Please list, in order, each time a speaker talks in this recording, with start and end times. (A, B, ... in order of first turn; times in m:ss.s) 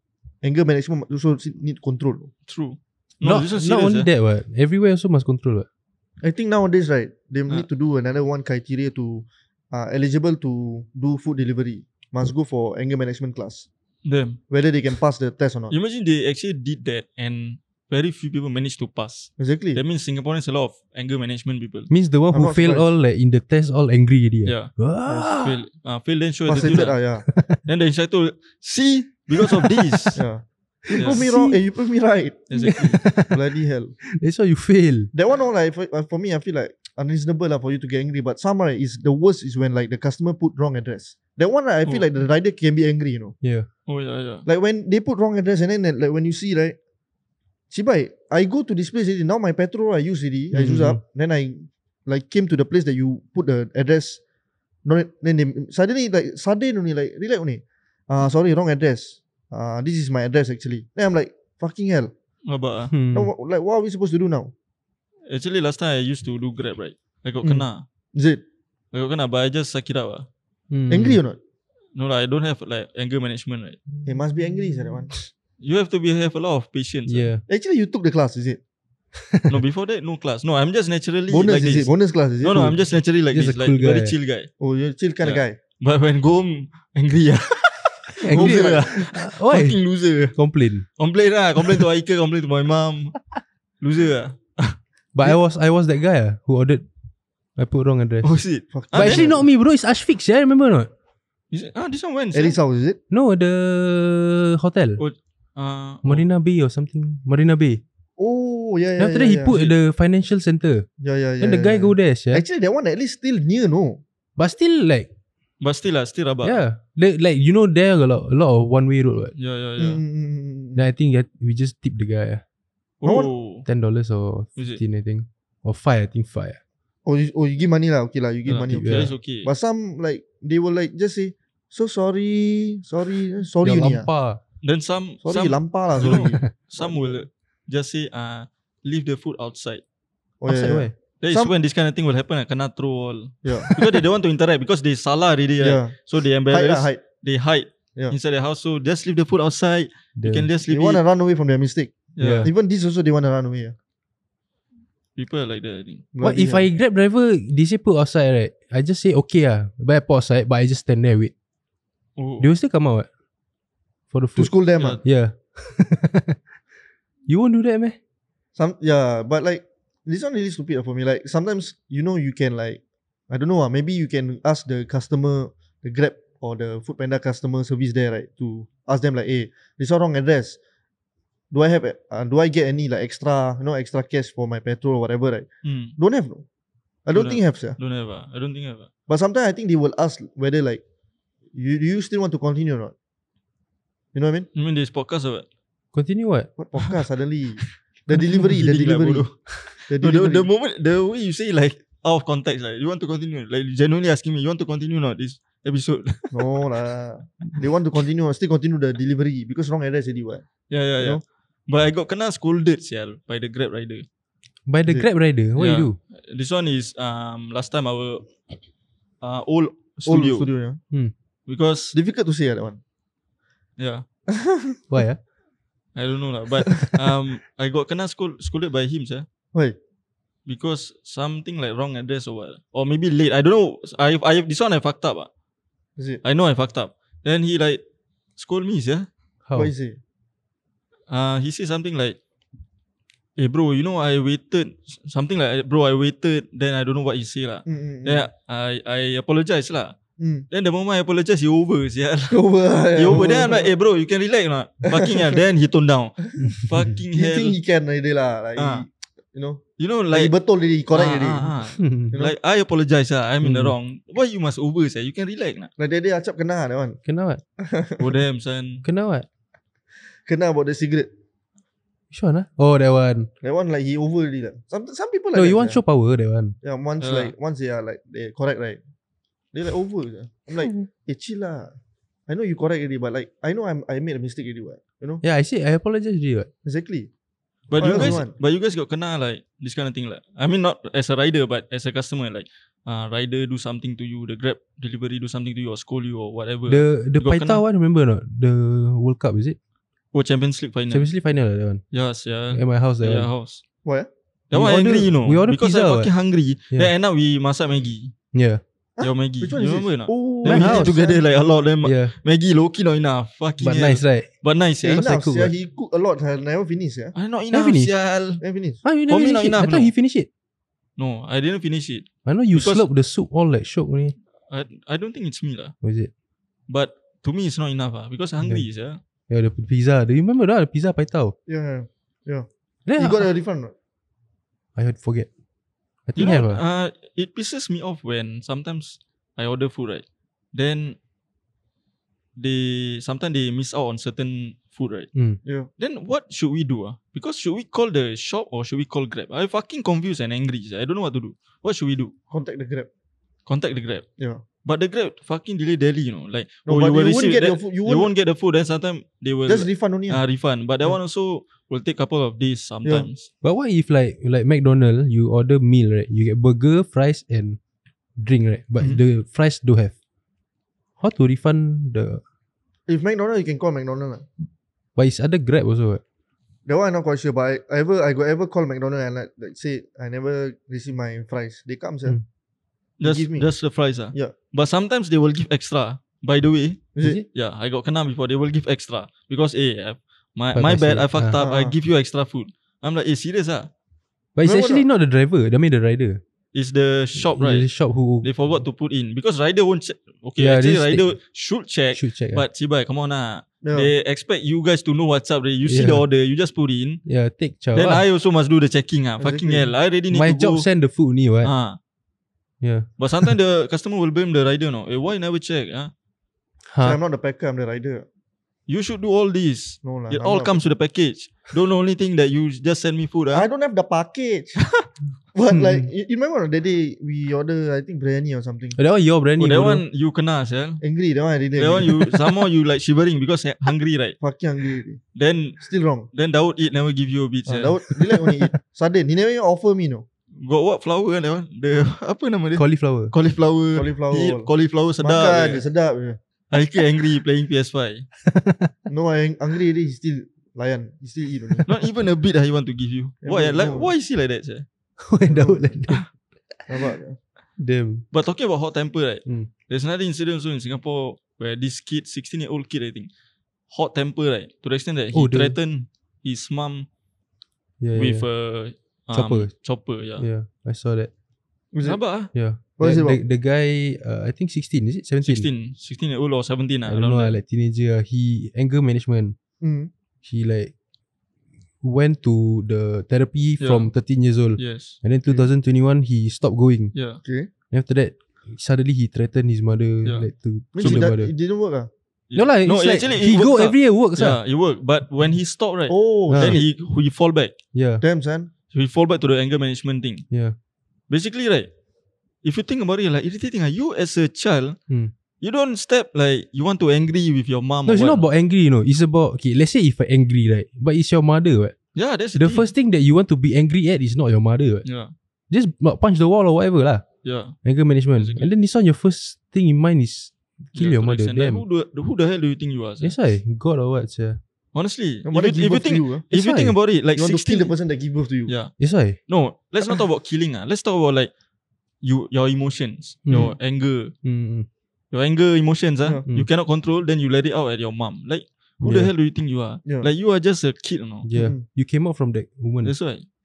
0:00.4-0:02.3 A
0:02.5-0:04.1 B
0:03.2-0:05.7 C
0:06.2-0:13.7 A
0:14.0-0:14.4 B
0:14.5-0:15.7 A
0:15.7-0:21.9 B
0:19.4-0:19.8 A
0:21.9-0:25.6 C
0:22.3-0:22.9 A
0:24.4-0:27.0 B
0:26.5-0:27.2 A
0:27.3-0:27.6 C
0:27.6-0:30.2 B
0:29.4-0:30.2 C
0:30.2-0:32.4 A
0:30.9-0:31.6 C
0:31.0-0:31.2 B
0:32.5-0:33.0 B
0:32.6-0:33.4 C
0:33.2-0:34.0 A
0:34.1-0:35.1 C
0:35.1-0:43.3 A
0:43.9-0:44.4 B
0:44.4-0:46.8 A
0:47.7-0:54.2 A
0:50.5-0:51.0 C
0:54.8-1:02.1 A
1:02.5-1:02.9 B
1:02.9-1:03.3 C
1:03.1-1:04.5 A
1:05.3-1:07.8 B
1:07.4-1:08.4 A
1:08.9-1:10.2 B
1:10.7-1:11.2 C
1:10.9-1:11.4 A
1:12.0-1:13.8 B
1:14.0-1:15.1 A
1:15.6-1:17.3 B
1:17.1-1:17.4 C
1:17.5-1:18.6 A
1:19.2-1:19.6 C
1:19.5-1:24.5 B
1:21.3-1:22.7 A
1:23.3-1:24.1 C
1:24.6-1:25.6 A
1:25.2-1:30.3 B
1:28.2-1:29.8 C
1:28.3-1:28.9 A
1:30.3-1:30.8 C
1:31.0-1:33.2 B
1:33.8-1:34.8 B
1:35.1-1:36.8 C
1:37.6-1:38.4 C
1:38.2-1:39.3 B
1:38.7-1:39.4 A
1:38.9-1:40.9 C
1:41.5-1:42.6 B
1:42.3-1:43.0 A
1:43.1-1:45.0 C
1:45.0-1:46.3 B
1:46.0-1:47.8 C
1:48.2-1:49.5 A
1:49.0-1:50.8 C
1:51.0-1:54.0 A
1:51.4-1:52.4 C
1:54.4-1:55.1 C
1:55.6-1:56.6 B
1:56.4-1:59.3 C
1:59.4-2:00.0 B
1:59.8-2:00.8 A
2:00.7-2:02.4 C
2:03.0-2:03.7 B
2:03.0-2:03.3 A
2:03.6-2:06.6 C
2:07.0-2:14.1 A
2:08.4-2:09.5 B
2:08.7-2:09.1 C
2:13.6-2:14.4 C
2:14.6-2:19.8 B
2:15.2-2:17.2 A
2:16.0-2:16.5 C
2:20.4-2:21.5 A
2:20.5-2:20.9 C
2:21.2-2:31.0 B
2:23.6-2:23.8 C
2:25.6-2:25.9 A
2:26.5-2:27.0 A
2:30.2-2:30.5 C
2:30.7-2:33.7 A
2:32.2-2:32.5 B
2:32.2-2:32.5 C
2:35.2-2:36.0 B
2:36.1-2:36.7 A
2:36.2-2:41.3 C
2:42.2-2:42.5 B
2:42.4-2:43.1 C
2:44.1-2:46.4 C
2:44.4-2:45.0 A
2:47.3-2:48.0 C
2:48.6-3:00.6 A
3:01.5-3:06.4 A
3:05.6-3:06.0 B
3:07.0-3:07.8 A
3:07.1-3:08.9 B
3:09.1-3:10.8 A
3:11.5-3:12.9 A
3:14.1-3:14.5 A
3:14.5-3:15.4 B
3:15.9-3:16.5 C
3:16.6-3:19.3 A
3:18.4-3:26.4 B
3:19.9-3:20.5 A
3:26.3-3:30.4 A
3:30.7-3:34.0 B
3:34.7-3:36.0 C
3:35.6-3:38.3 B
3:39.2-3:40.5 B
3:40.0-3:40.8 A
3:41.5-3:42.0 B
3:41.9-3:42.8 A
3:43.8-3:44.0 B
3:44.3-3:45.0 A
3:44.9-3:45.2 C
3:45.9-3:49.2 B
3:50.4-3:55.3 B
3:56.0-3:56.2 A
3:56.2-3:57.8 B
3:58.4-3:59.1 B
3:59.4-3:59.7 C
3:59.5-4:00.0 A
4:01.1-4:02.2 B
4:03.4-4:10.0 B
4:07.6-4:08.3 A
4:10.2-4:10.4 A
4:10.5-4:17.6 B
4:12.3-4:13.7 A
4:14.9-4:15.4 A
4:16.4-4:16.9 C
4:17.1-4:21.5 A
4:18.6-4:18.8 B
4:19.8-4:20.3 B
4:20.9-4:25.7 B
4:21.8-4:22.1 C
4:23.4-4:23.7 C
4:25.8-4:27.0 A
4:27.0-4:27.4 C
4:27.6-4:28.1 A
4:28.0-4:28.8 B
4:28.8-4:29.2 C
4:30.2-4:31.1 A
4:32.1-4:33.3 C
4:33.4-4:35.8 A
4:35.3-4:36.5 C
4:36.6-4:38.8 A
4:37.0-4:37.3 B
4:39.5-4:41.7 A
4:42.3-4:45.2 A
4:45.2-4:46.5 C
4:46.6-4:47.1 A
4:47.7-4:57.6 B
4:47.8-4:48.3 A
4:47.8-4:48.2 C
4:56.7-4:59.6 C
5:00.1-5:01.1 B
5:00.9-5:01.8 C
5:01.9-5:03.6 B
5:02.5-5:03.3 C
5:04.5-5:08.1 B
5:04.5-5:06.1 C
5:08.3-5:08.6 C
5:09.0-5:11.2 A
5:09.0-5:15.0 B
5:10.4-5:10.9 C
5:11.8-5:12.1 C
5:13.6-5:14.3 C
5:14.8-5:17.1 A
5:14.9-5:15.5 C
5:17.1-5:18.4 B
5:17.5-5:17.9 C
5:18.4-5:18.8 A
5:18.8-5:20.3 C
5:19.1-5:19.9 B
5:21.0-5:22.8 B
5:22.2-5:24.2 C
5:24.5-5:25.7 B
5:25.8-5:26.1 C
5:26.7-5:29.0 B
5:29.3-5:31.3 C
5:31.5-5:33.7 A
5:32.9-5:33.3 C
5:34.8-5:35.3 C
5:36.0-5:36.6 C
5:36.2-5:41.0 B
5:42.4-5:45.1 B
5:45.4-5:45.7 A
5:45.8-5:52.1 B
5:52.3-5:52.9 A
5:53.4-5:54.0 B
5:54.6-6:03.3 B
5:56.7-5:58.1 A
5:59.5-6:00.2 A
6:03.4-6:07.6 C
6:08.2-6:09.9 C
6:11.0-6:12.2 C
6:12.9-6:14.3 A
6:15.0-6:16.0 C
6:16.6-6:22.2 A
6:23.0-6:33.7 B
6:23.0-6:23.5 A
6:26.9-6:27.2 A
6:30.5-6:31.4 C
6:31.4-6:31.7 A
6:34.4-6:36.2 C
6:34.4-6:34.8 A
6:36.5-6:37.7 B
6:37.2-6:38.3 C
6:38.2-6:47.0 B
6:40.4-6:41.0 C
6:41.9-6:42.4 C
6:43.6-6:43.9 A
6:45.6-6:46.0 C
6:47.0-6:48.0 C
6:47.7-6:50.7 B
6:49.2-6:49.7 A
6:50.1-6:51.5 C
6:51.4-6:51.8 B
6:52.6-6:53.3 C
6:53.0-6:55.9 B
6:56.7-6:57.0 C
6:56.8-6:58.0 A
6:58.7-7:03.5 B
6:59.8-7:00.6 A
7:03.3-7:04.6 A
7:05.3-7:08.8 A
7:05.5-7:05.9 C
7:08.8-7:09.8 C
7:09.4-7:10.8 B
7:10.8-7:12.4 A
7:11.6-7:14.2 B
7:14.2-7:15.0 A
7:15.1-7:17.8 B
7:15.6-7:16.1 A
7:17.4-7:20.0 A
7:20.4-7:25.6 B
7:22.6-7:23.1 C
7:23.7-7:24.5 A
7:25.0-7:26.2 A
7:26.5-7:28.0 B
7:28.2-7:28.7 C
7:28.9-7:31.7 A
7:31.6-7:34.6 B
7:33.2-7:33.9 A
7:35.0-7:36.0 C
7:35.3-7:35.8 A
7:36.7-7:37.2 A
7:37.6-7:38.0 C
7:38.1-7:43.1 B
7:43.7-7:46.9 B
7:45.1-7:45.6 C
7:47.8-7:48.2 C
7:47.9-7:50.2 B
7:49.1-7:49.5 C
7:50.2-7:51.1 C
7:51.7-7:52.0 A
7:51.8-7:52.3 B
7:52.3-7:55.5 C
7:52.8-7:53.2 A
7:55.2-7:57.4 B
7:56.9-7:59.4 C
7:59.6-7:59.9 A
8:00.2-8:00.7 C
8:01.8-8:06.9 C
8:03.6-8:03.9 B
8:04.6-8:05.0 B
8:06.9-8:07.2 B
8:07.2-8:07.5 A
8:07.7-8:11.3 C
8:10.7-8:11.9 A
8:10.8-8:11.0 B
8:12.3-8:17.5 B
8:12.3-8:14.4 C
8:15.9-8:16.6 A
8:16.3-8:16.6 C
8:17.7-8:18.0 C
8:18.0-8:18.5 A
8:18.7-8:20.2 B
8:21.1-8:21.7 B
8:22.4-8:24.8 B
8:25.4-8:28.3 B
8:27.8-8:31.8 C
8:31.9-8:32.7 B
8:32.3-8:34.8 C
8:34.8-8:35.1 B
8:35.5-8:37.0 C
8:37.2-8:37.6 B
8:37.6-8:41.6 C
8:38.1-8:38.5 B
8:40.7-8:43.2 B
8:43.0-8:44.4 C
8:44.7-8:47.7 B
8:45.2-8:46.2 A
8:46.3-8:46.8 C
8:47.1-8:48.5 A
8:48.5-8:51.3 B
8:48.8-8:49.2 C
8:52.0-8:54.1 B
8:53.2-8:53.6 C
8:54.2-8:54.7 C
8:55.1-9:01.3 B
8:58.8-8:59.1 C
9:01.2-9:02.9 C
9:01.3-9:01.6 A
9:02.8-9:03.2 B